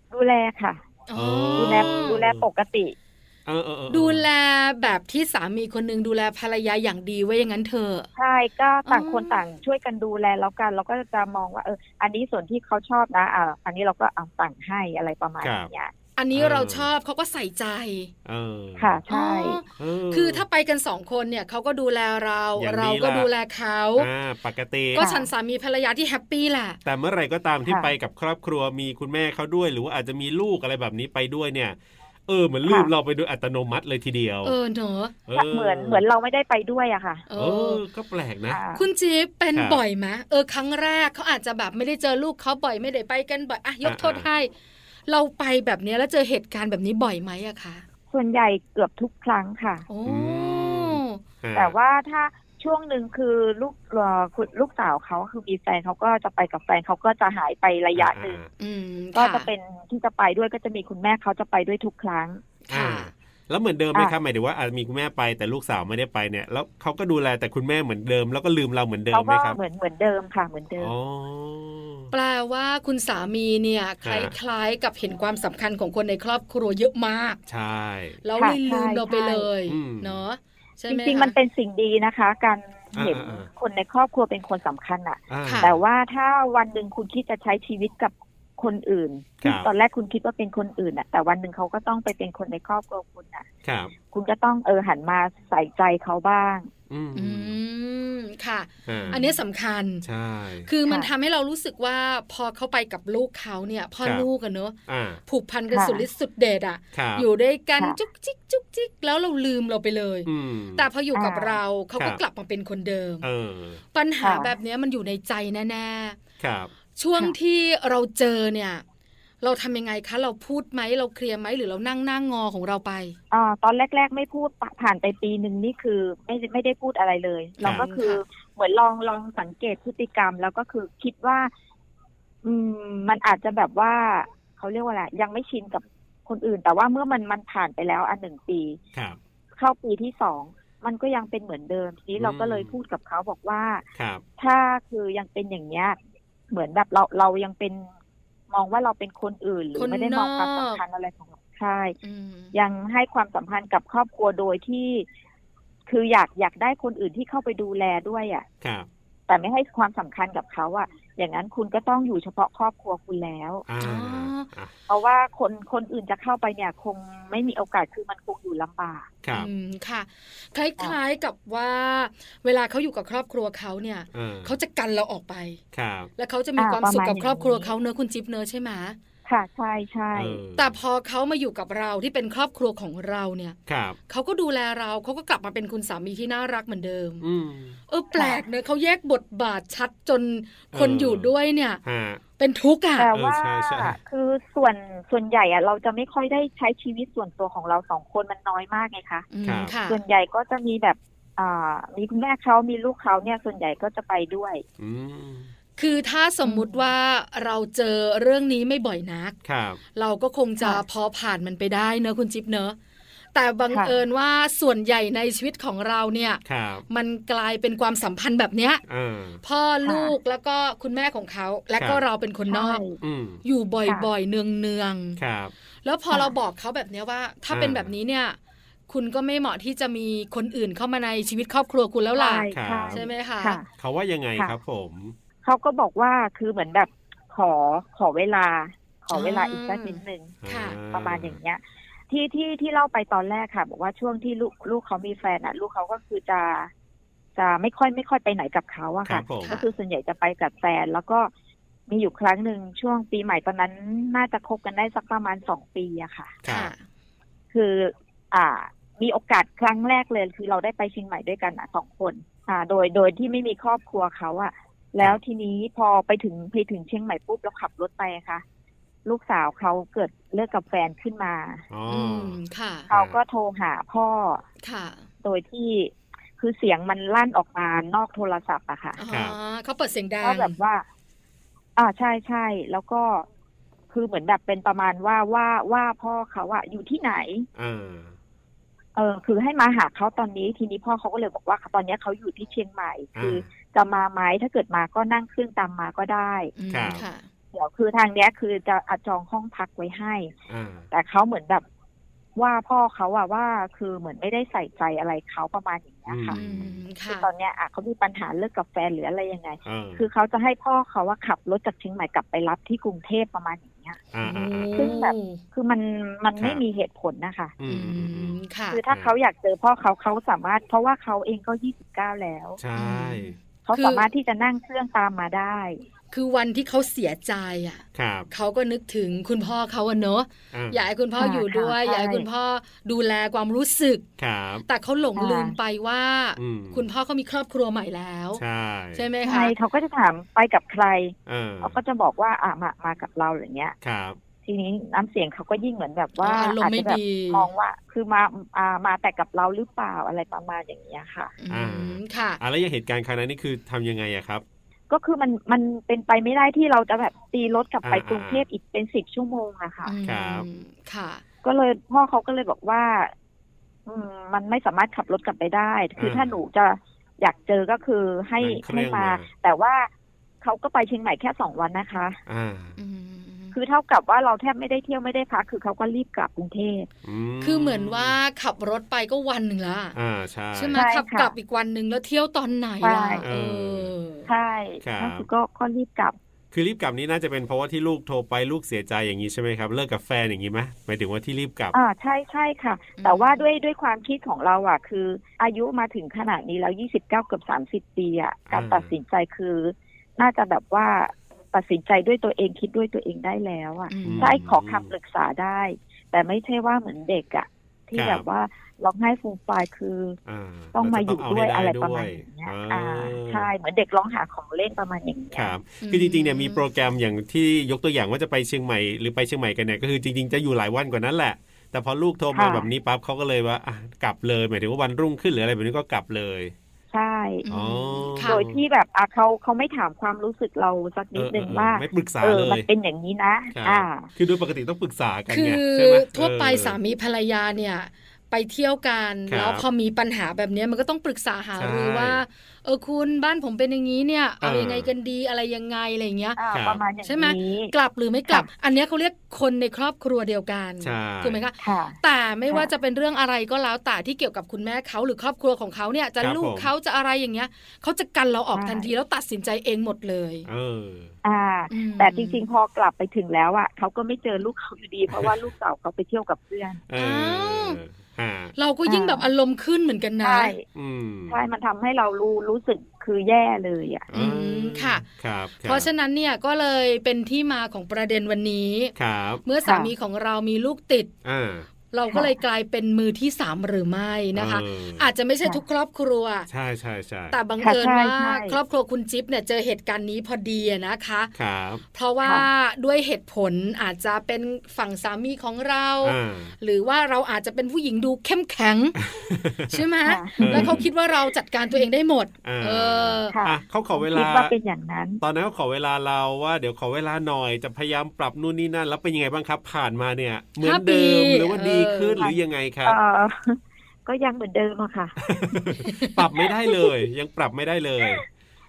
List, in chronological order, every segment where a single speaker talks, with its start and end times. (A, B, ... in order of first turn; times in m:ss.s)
0:00.1-0:00.8 A
0:01.1-0:02.2 B
0:01.2-0:02.5 C
0:01.6-0:02.9 A
0:03.5-0:04.2 C
0:03.9-0:08.1 B
0:08.2-0:15.9 A
0:08.9-0:09.4 B
0:15.4-0:15.7 C
0:16.2-0:18.1 B
0:16.3-0:16.9 C
0:18.2-0:19.0 C
0:18.8-0:19.6 A
0:19.1-0:24.1 B
0:19.8-0:20.4 C
0:22.6-0:23.3 C
0:24.0-0:25.1 C
0:24.9-0:26.8 B
0:25.0-0:25.3 A
0:26.8-0:31.8 C
0:27.7-0:27.9 A
0:32.3-0:34.6 C
0:32.6-0:32.9 A
0:34.4-0:35.1 B
0:35.3-0:36.0 C
0:35.3-0:37.2 A
0:37.3-0:37.8 B
0:37.4-0:38.6 C
0:38.5-0:38.9 A
0:38.7-0:44.5 B
0:39.5-0:39.8 C
0:43.8-0:44.2 C
0:45.1-0:47.8 B
0:48.1-0:49.9 A
0:49.9-0:51.2 B
0:50.1-0:51.8 C
0:51.6-0:58.4 A
0:58.0-0:58.5 C
0:58.6-0:59.5 B
0:59.2-1:02.4 A
1:02.7-1:03.1 B
1:02.7-1:09.6 C
1:09.1-1:10.9 A
1:10.8-1:12.1 C
1:12.1-1:17.4 B
1:14.0-1:14.3 C
1:17.5-1:18.2 C
1:18.2-1:21.4 B
1:18.4-1:19.5 A
1:19.7-1:20.2 C
1:20.9-1:33.5 A
1:23.0-1:23.5 C
1:25.3-1:25.8 C
1:25.4-1:25.8 B
1:29.4-1:29.7 C
1:33.6-1:33.9 C
1:34.1-1:36.7 A
1:36.9-1:37.6 C
1:37.2-1:40.0 B
1:38.9-1:39.3 C
1:40.0-1:40.7 C
1:40.7-1:53.2 B
1:44.9-1:45.2 C
1:45.7-1:46.0 A
1:46.9-1:47.2 C
1:50.2-1:50.9 C
1:51.1-1:51.6 A
1:53.2-1:53.8 C
1:53.9-1:56.2 B
1:54.2-1:54.5 A
1:56.4-1:56.7 C
1:57.0-1:58.8 B
1:59.4-2:03.2 B
2:03.3-2:11.5 A
2:07.6-2:08.2 B
2:12.4-2:18.8 A
2:19.6-2:23.8 A
2:22.2-2:22.7 C
2:24.0-2:24.2 C
2:24.4-2:26.0 A
2:26.5-2:27.9 A
2:28.5-2:32.0 A
2:29.8-2:30.8 B
2:32.0-2:32.5 B
2:32.5-2:35.1 A
2:35.9-2:38.4 A
2:38.6-2:38.9 C
2:39.3-2:43.6 A
2:43.7-2:44.7 C
2:43.8-2:44.5 B
2:44.9-2:49.1 A
2:49.2-2:49.5 C
2:49.3-2:55.6 B
2:54.1-2:54.6 C
2:55.7-2:56.1 C
2:56.2-2:59.0 B
2:56.6-2:57.7 A
2:59.2-3:00.4 A
3:00.1-3:00.8 C
3:00.6-3:03.6 B
3:03.7-3:04.0 C
3:04.1-3:07.2 B
3:07.2-3:07.8 C
3:07.9-3:11.8 B
3:08.2-3:08.4 A
3:10.7-3:11.3 C
3:11.8-3:12.2 C
3:12.4-3:13.1 B
3:13.0-3:19.3 A
3:13.1-3:14.0 C
3:19.3-3:20.0 B
3:19.4-3:19.7 C
3:19.9-3:24.6 A
3:24.8-3:25.5 C
3:25.8-3:29.4 B
3:26.5-3:26.8 A
3:29.4-3:29.8 C
3:30.0-3:32.8 B
3:33.3-3:38.8 B
3:36.4-3:36.9 C
3:38.9-3:39.4 C
3:39.4-3:42.8 B
3:39.8-3:40.1 A
3:42.5-3:43.0 A
3:43.0-3:43.4 C
3:43.4-3:45.2 B
3:45.2-3:45.5 C
3:45.8-3:48.4 B
3:47.5-3:47.9 C
3:48.9-3:53.6 B
3:52.2-3:53.7 A
3:52.5-3:53.0 C
3:53.8-3:55.2 C
3:55.4-4:00.4 A
3:59.1-4:00.8 B
4:00.4-4:01.4 C
4:00.9-4:06.7 A
4:07.4-4:11.3 A
4:09.0-4:09.6 C
4:09.4-4:09.7 B
4:11.9-4:16.4 A
4:16.4-4:16.7 C
4:16.4-4:16.8 B
4:17.5-4:28.4 A
4:29.0-4:31.7 A
4:31.7-4:32.4 C
4:31.9-4:32.9 B
4:32.9-4:33.2 C
4:32.9-4:34.4 A
4:34.6-4:35.1 B
4:35.2-4:39.0 A
4:39.0-4:40.6 B
4:39.1-4:39.4 C
4:40.2-4:40.8 A
4:41.8-4:43.2 A
4:43.9-4:47.5 A
4:47.6-4:48.2 C
4:49.0-4:56.5 A
4:53.2-4:53.4 C
4:56.6-4:57.3 B
4:56.7-4:57.0 C
4:57.5-5:00.3 A
5:00.5-5:00.9 C
5:00.9-5:01.6 A
5:02.4-5:06.4 A
5:06.1-5:06.8 C
5:06.3-5:07.3 B
5:07.1-5:14.0 A
5:09.6-5:10.1 C
5:14.1-5:14.9 C
5:14.2-5:15.4 B
5:14.8-5:17.6 A
5:16.4-5:16.6 C
5:17.6-5:18.4 C
5:17.7-5:18.8 B
5:18.7-5:22.6 A
5:22.6-5:23.4 C
5:22.8-5:24.1 B
5:23.6-5:25.8 A
5:26.1-5:34.0 B
5:28.0-5:28.3 C
5:30.5-5:30.9 C
5:31.2-5:32.2 A
5:34.2-5:34.6 C
5:34.7-5:38.4 B
5:35.2-5:35.6 A
5:36.4-5:36.8 C
5:38.4-5:39.1 C
5:39.0-5:39.5 B
5:39.2-5:43.8 A
5:41.2-5:41.8 C
5:43.8-5:44.2 C
5:44.4-5:51.3 A
5:46.2-5:47.5 B
5:51.4-5:52.4 B
5:51.5-5:54.4 C
5:54.9-5:59.9 A
5:57.8-5:58.4 C
5:59.8-6:01.2 B
6:00.0-6:00.5 C
6:01.4-6:03.1 A
6:03.9-6:09.9 A
6:06.0-6:06.4 C
6:08.4-6:09.3 C
6:10.4-6:12.2 A
6:12.3-6:12.8 C
6:12.8-6:13.6 B
6:13.5-6:16.9 A
6:17.0-6:18.2 C
6:17.4-6:20.0 B
6:20.0-6:20.8 C
6:20.6-6:24.3 B
6:20.7-6:21.3 A
6:22.8-6:23.2 A
6:23.2-6:23.9 C
6:24.3-6:26.2 A
6:24.8-6:25.2 C
6:26.5-6:31.8 C
6:31.7-6:50.2 A
6:33.0-6:33.4 B
6:38.5-6:39.0 C
6:43.9-6:44.4 B
6:44.0-6:44.9 C
6:48.0-6:48.2 C
6:50.2-6:53.5 C
6:50.7-6:55.5 A
6:55.3-7:06.5 C
6:55.8-6:56.6 B
7:02.3-7:02.7 A
7:06.9-7:07.5 A
7:07.4-7:08.4 B
7:07.5-7:08.6 C
7:08.3-7:14.1 A
7:11.2-7:12.7 C
7:13.5-7:16.8 C
7:15.3-7:26.4 B
7:19.3-7:19.6 C
7:21.5-7:22.2 C
7:24.4-7:24.9 C
7:26.4-7:27.7 A
7:26.5-7:26.8 C
7:27.0-7:40.5 B
7:30.8-7:31.4 C
7:31.6-7:32.0 A
7:36.2-7:36.7 C
7:38.5-7:38.9 A
7:40.5-7:41.1 C
7:41.2-7:46.8 A
7:41.7-7:42.5 B
7:45.1-7:45.4 C
7:46.9-7:48.5 C
7:47.0-7:47.8 B
7:48.6-7:50.5 B
7:48.9-7:49.3 A
7:50.2-7:50.6 A
7:50.7-7:51.4 C
7:51.3-7:54.1 A
7:54.1-7:55.9 C
7:54.1-7:55.0 B
7:55.6-7:58.9 B
7:59.0-7:59.4 C
7:59.4-8:01.1 B
7:59.6-7:59.9 A
8:01.2-8:01.7 C
8:01.9-8:06.5 B
8:02.1-8:02.4 A
8:04.4-8:05.1 C
8:06.5-8:07.4 C
8:07.3-8:11.3 B
8:07.6-8:08.6 A
8:11.4-8:11.8 C
8:11.9-8:19.0 B
8:16.0-8:16.5 C
8:19.0-8:19.8 C
8:19.7-8:23.4 B
8:20.0-8:20.8 A
8:20.4-8:20.9 C
8:22.4-8:24.5 C
8:23.3-8:25.2 A
8:25.2-8:33.0 C
8:30.6-8:32.3 B
8:32.2-8:35.2 A
8:35.2-8:38.2 C
8:35.8-8:36.2 B
8:36.5-8:37.0 A